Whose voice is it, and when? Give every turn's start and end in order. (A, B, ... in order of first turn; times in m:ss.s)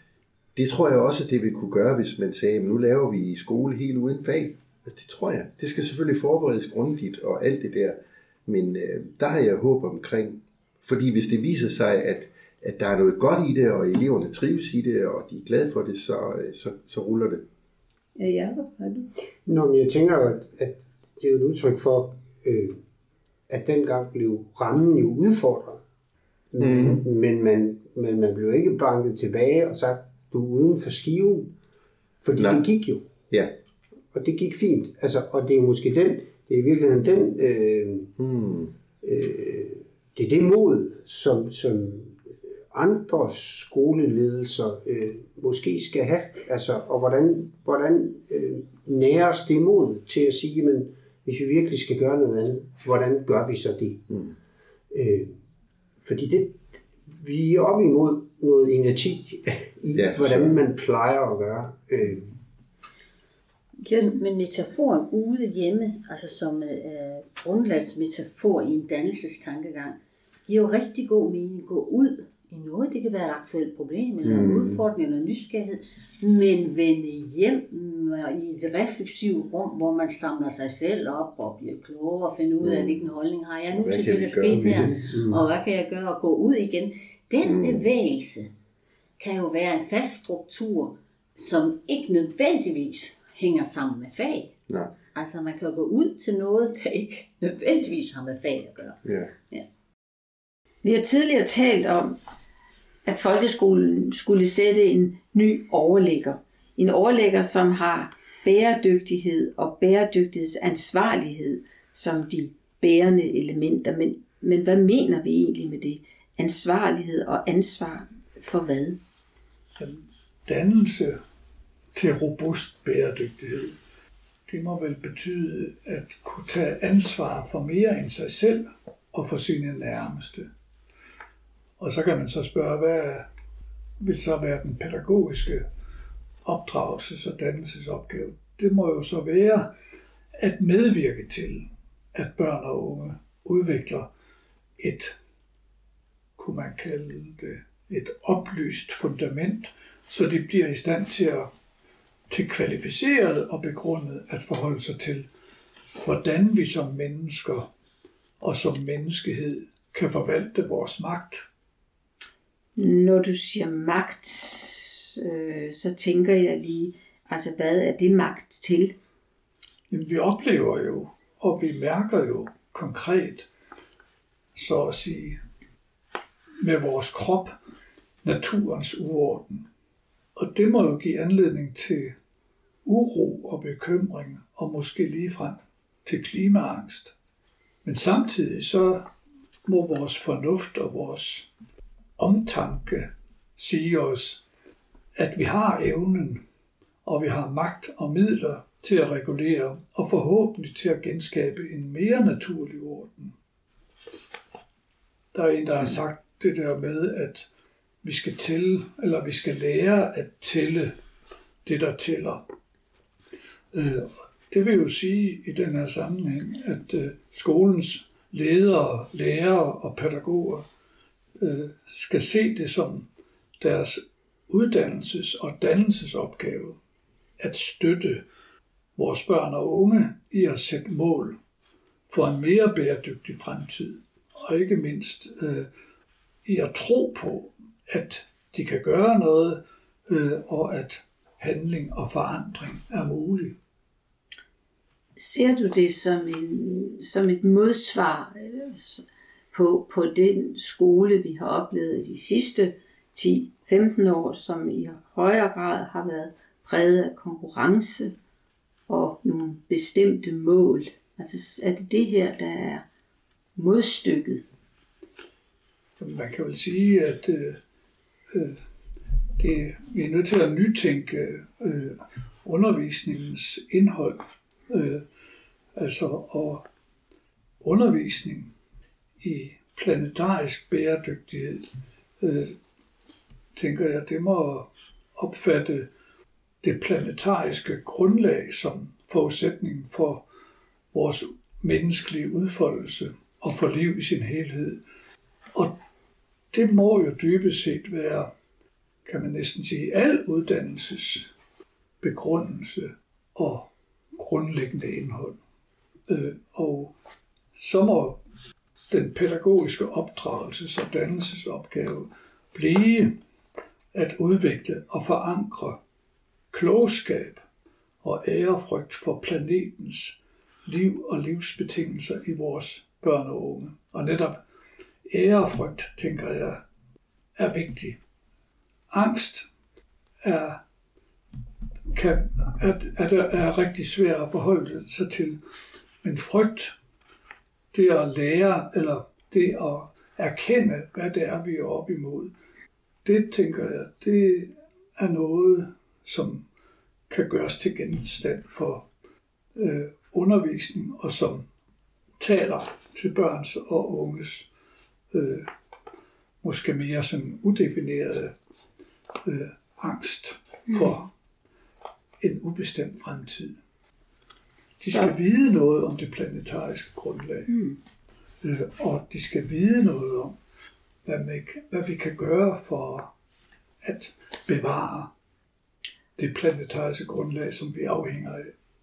0:00.6-0:17.4 A
0:18.2-0:19.1 B
0:19.5-0:22.8 C
0:23.5-0:25.8 C
0:26.5-0:31.6 C
0:26.6-0:27.0 A
0:32.2-0:33.1 C
0:32.4-0:32.6 A
0:34.1-0:38.1 C
0:38.2-0:38.7 A
0:39.0-0:54.1 C
0:54.9-0:55.4 C
0:56.0-1:02.4 C
0:59.9-1:00.6 A
1:03.8-1:04.2 B
1:04.0-1:28.5 D
1:14.2-1:14.8 A
1:22.6-1:23.1 A
1:23.7-1:25.2 A
1:24.5-1:25.1 C
1:27.4-1:27.9 A
1:29.2-1:34.5 D
1:34.7-1:34.9 A
1:35.1-1:39.0 D
1:39.0-1:39.3 A
1:40.8-1:42.2 B
1:43.0-1:59.0 B
1:59.8-2:01.2 E
2:01.9-2:03.8 E
2:04.5-2:10.5 E
2:11.8-2:13.3 E
2:14.0-2:15.6 E
2:16.4-2:19.7 E
2:20.4-2:24.1 E
2:24.8-2:25.2 E
2:26.4-2:31.5 E
2:32.3-2:35.3 E
2:36.0-2:37.7 E
2:38.4-2:41.5 E
2:42.8-2:49.0 B
2:49.9-2:53.5 E
2:54.6-2:55.4 E
2:56.6-2:57.5 E
2:58.2-2:59.7 E
3:00.4-3:02.2 E
3:02.8-3:07.1 E
3:07.8-3:09.1 E
3:09.6-3:11.5 E
3:12.2-3:14.4 E
3:15.2-3:16.4 E
3:17.0-3:23.3 E
3:25.3-3:27.5 E
3:28.0-3:31.0 E
3:31.6-3:32.4 E
3:33.7-3:40.6 E
3:41.4-3:43.1 E
3:43.6-3:46.8 E
3:47.4-3:48.2 E
3:49.0-3:51.4 E
3:52.1-3:55.7 E
3:56.4-4:03.6 E
4:05.2-4:18.1 B
4:18.9-4:22.8 B
4:23.6-4:24.4 B
4:26.0-4:27.6 E
4:28.3-4:28.6 E
4:29.4-4:35.0 E
4:35.8-4:36.6 E
4:37.6-4:38.5 E
4:39.2-4:41.7 E
4:42.2-4:42.6 E
4:43.5-4:45.9 E
4:46.6-4:50.2 E
4:50.9-4:54.8 E
4:56.5-4:58.3 E
4:59.0-5:01.3 E
5:02.0-5:05.4 E
5:06.1-5:06.9 E
5:07.6-5:08.2 E
5:08.9-5:13.2 E
5:13.9-5:15.8 E
5:16.5-5:17.4 E
5:18.0-5:24.4 E
5:25.1-5:26.6 E
5:27.4-5:28.0 E
5:28.9-5:29.5 E
5:30.2-5:30.6 E
5:31.9-5:35.4 E
5:36.0-5:36.8 E
5:37.7-5:42.3 E
5:43.0-5:46.4 E
5:47.1-5:48.8 E
5:49.6-5:51.5 E
5:52.2-5:54.5 E
5:55.1-5:55.5 E
5:56.4-5:58.3 E
5:59.2-6:01.1 E
6:02.2-6:03.6 E
6:04.8-6:05.1 B
6:04.8-6:07.6 E
6:08.4-6:10.4 E
6:11.0-6:13.1 E
6:13.8-6:15.1 E
6:16.2-6:18.5 E